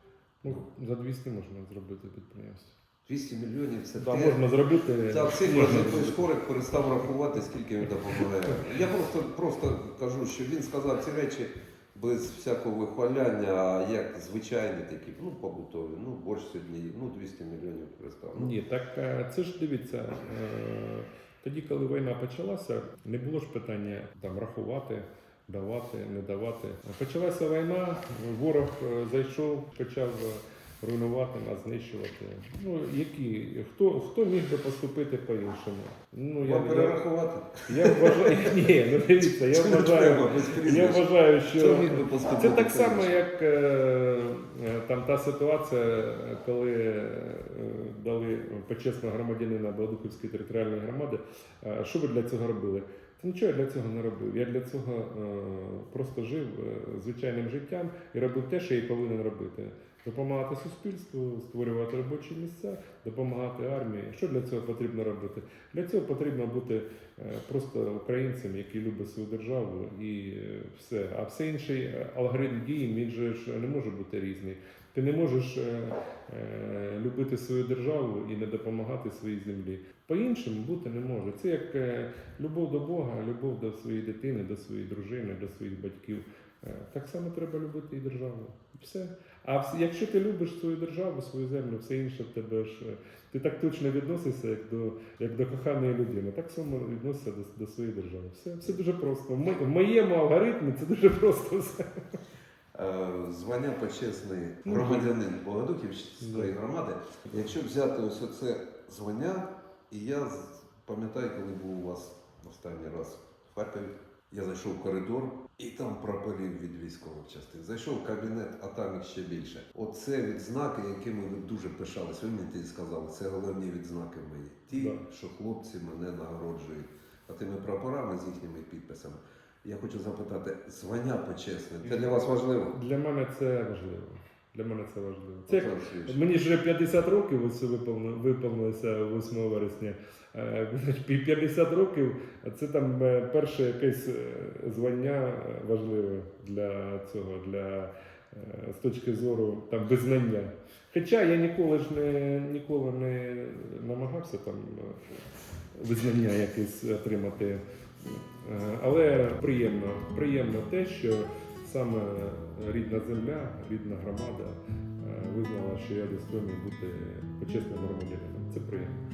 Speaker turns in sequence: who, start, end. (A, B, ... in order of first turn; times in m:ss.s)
0:00.4-0:02.8 A
0:03.0-0:04.4 B
0:03.9-0:06.2 A
0:05.1-0:18.5 B
0:18.4-0:37.0 A
0:36.4-0:38.2 B
0:37.7-1:42.0 A
0:39.3-0:43.2 B
1:42.7-2:12.8 B
1:44.6-1:45.1 A
1:46.2-1:46.5 A
2:04.7-2:05.0 A
2:11.8-2:12.2 A
2:12.7-2:35.2 A
2:15.5-2:16.2 B
2:35.7-2:49.0 A